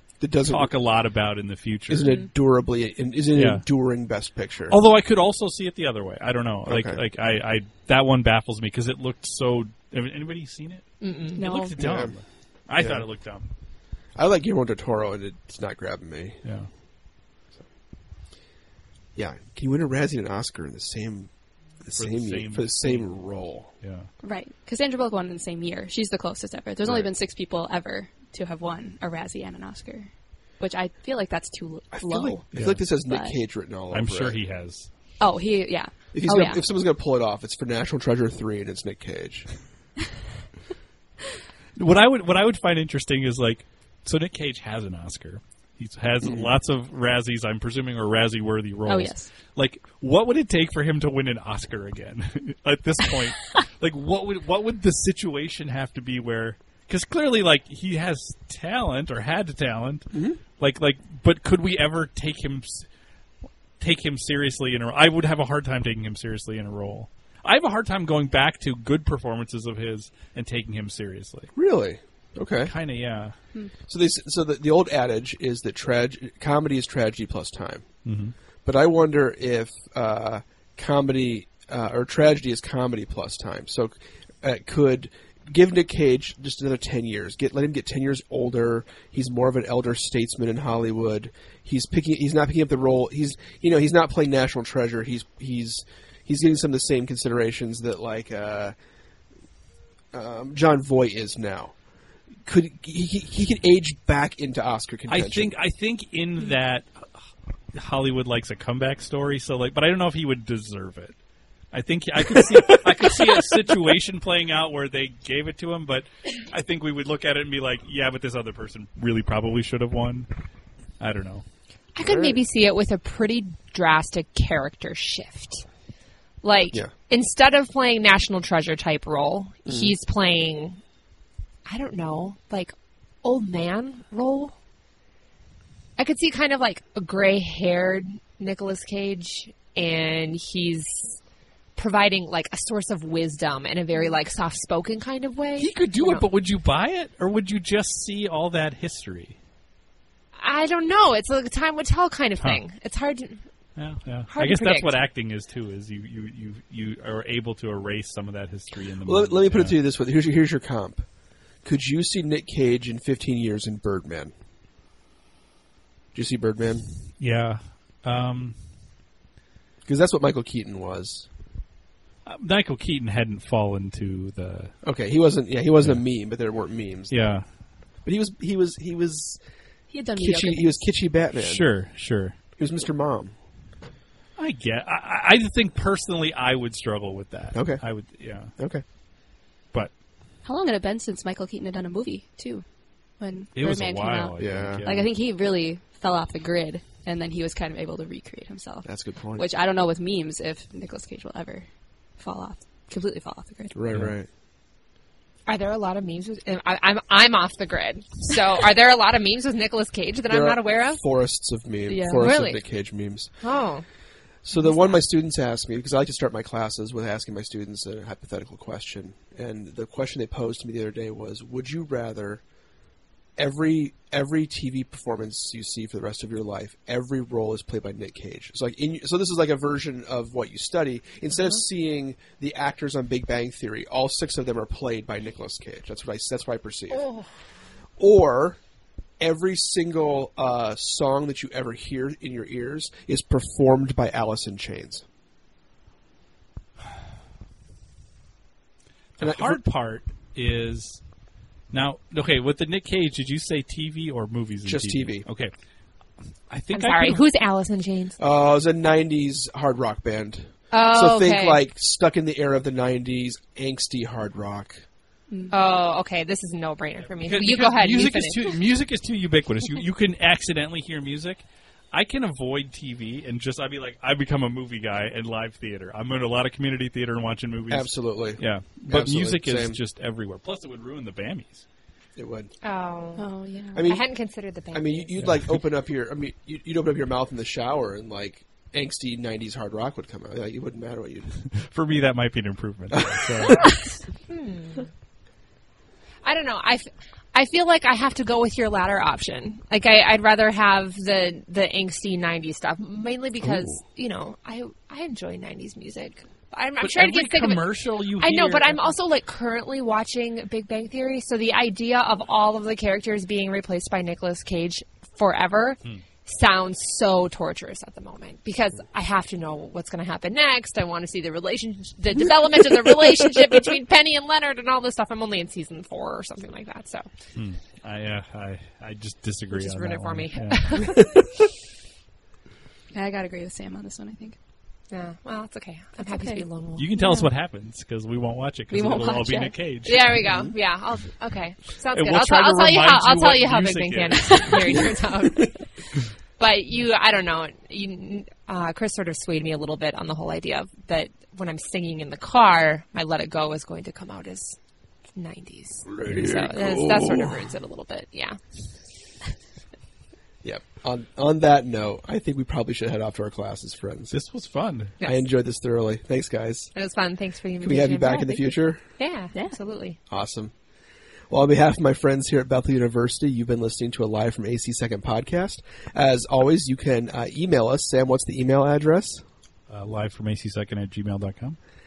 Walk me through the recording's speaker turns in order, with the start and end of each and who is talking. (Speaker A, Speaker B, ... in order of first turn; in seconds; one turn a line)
Speaker A: 0.2-0.7
Speaker B: 0.4-2.3
Speaker A: 1.9-4.8
Speaker B: 3.3-3.6
Speaker B: 4.7-13.5
Speaker A: 6.7-7.0
Speaker C: 11.0-11.4
Speaker D: 11.4-11.8
Speaker A: 11.8-12.1
Speaker A: 12.8-13.1
Speaker A: 14.2-16.4
Speaker B: 16.4-16.7
Speaker A: 19.2-21.3
Speaker A: 21.8-23.7
Speaker B: 22.0-23.1
Speaker B: 23.8-24.1
Speaker D: 24.2-33.4
Speaker A: 26.8-27.1
Speaker A: 31.9-34.4
Speaker B: 32.5-32.8
Speaker B: 33.9-34.9
Speaker D: 35.2-36.6
Speaker A: 36.1-39.5
Speaker B: 41.8-62.9
Speaker A: 46.2-46.5
Speaker D: 48.9-49.3
Speaker A: 60.1-60.4
Speaker B: 63.8-71.5
Speaker A: 71.5-72.7
Speaker B: 72.7-73.4
Speaker A: 73.9-77.9
Speaker B: 78.0-78.3
Speaker A: 78.7-98.8
Speaker A: 100.1-101.8
Speaker A: 102.5-105.5
Speaker B: 105.1-107.1
Speaker B: 107.7-111.1
Speaker B: 111.7-120.3
Speaker A: 112.4-112.8
Speaker B: 121.0-121.5
Speaker C: 122.0-125.7
Speaker A: 122.0-122.4
Speaker C: 126.4-130.8
Speaker A: 129.7-129.9
Speaker C: 131.7-134.6
Speaker C: 136.0-141.2
Speaker C: 141.8-146.2
Speaker B: 145.6-149.4
Speaker C: 150.4-153.5
Speaker B: 153.8-159.8
Speaker C: 154.3-154.9
Speaker A: 159.0-161.1
Speaker A: 161.6-164.3
Speaker A: 166.1-166.9
Speaker B: 167.2-168.6
Speaker A: 169.9-171.3
Speaker B: 172.3-174.7
Speaker A: 174.8-177.2
Speaker B: 177.1-177.4
Speaker A: 178.1-179.4
Speaker D: 179.9-180.8
Speaker A: 180.2-181.7
Speaker B: 181.3-182.4
Speaker A: 182.6-183.3
Speaker B: 184.4-188.5
Speaker A: 187.5-187.8
Speaker A: 188.6-188.8
Speaker D: 190.4-192.7
Speaker D: 193.2-201.7
Speaker B: 193.6-195.1
Speaker A: 194.4-194.8
Speaker A: 198.8-199.5
Speaker D: 202.2-203.8
Speaker A: 203.7-204.3
Speaker C: 205.5-211.0
Speaker A: 210.3-213.3
Speaker D: 211.9-212.3
Speaker C: 212.2-212.6
Speaker C: 213.4-213.8
Speaker A: 214.4-222.4
Speaker C: 214.5-215.0
Speaker A: 223.4-237.1
Speaker A: 238.0-238.6
Speaker A: 239.2-245.0
Speaker B: 249.2-251.0
Speaker A: 249.2-249.6
Speaker B: 251.7-255.5
Speaker A: 254.7-255.3
Speaker B: 256.5-257.2
Speaker C: 256.7-258.2
Speaker A: 258.2-264.8
Speaker C: 260.7-261.6
Speaker C: 265.5-268.6
Speaker B: 267.2-281.6
Speaker A: 277.7-279.8
Speaker A: 282.2-282.5
Speaker C: 282.6-283.2
Speaker D: 283.2-283.9
Speaker A: 283.7-284.0
Speaker C: 283.8-285.1
Speaker A: 284.7-291.4
Speaker B: 285.2-285.5
Speaker B: 291.5-293.8
Speaker A: 292.9-293.8
Speaker C: 294.3-294.9
Speaker C: 296.2-307.7
Speaker A: 303.4-303.7
Speaker B: 306.8-309.0
Speaker C: 308.2-327.1
Speaker B: 327.4-331.0
Speaker C: 329.5-331.0
Speaker D: 332.9-334.4
Speaker C: 334.9-336.9
Speaker D: 336.0-337.3
Speaker B: 336.8-340.0
Speaker D: 338.7-339.6
Speaker C: 339.9-345.6
Speaker B: 341.9-344.9
Speaker C: 346.4-354.6
Speaker C: 355.2-358.4
Speaker A: 355.9-357.4
Speaker A: 360.4-364.1
Speaker B: 364.1-364.9
Speaker A: 365.0-366.7
Speaker C: 366.8-370.0
Speaker A: 367.6-368.8
Speaker A: 370.1-370.5
Speaker A: 371.3-379.2
Speaker B: 379.7-381.6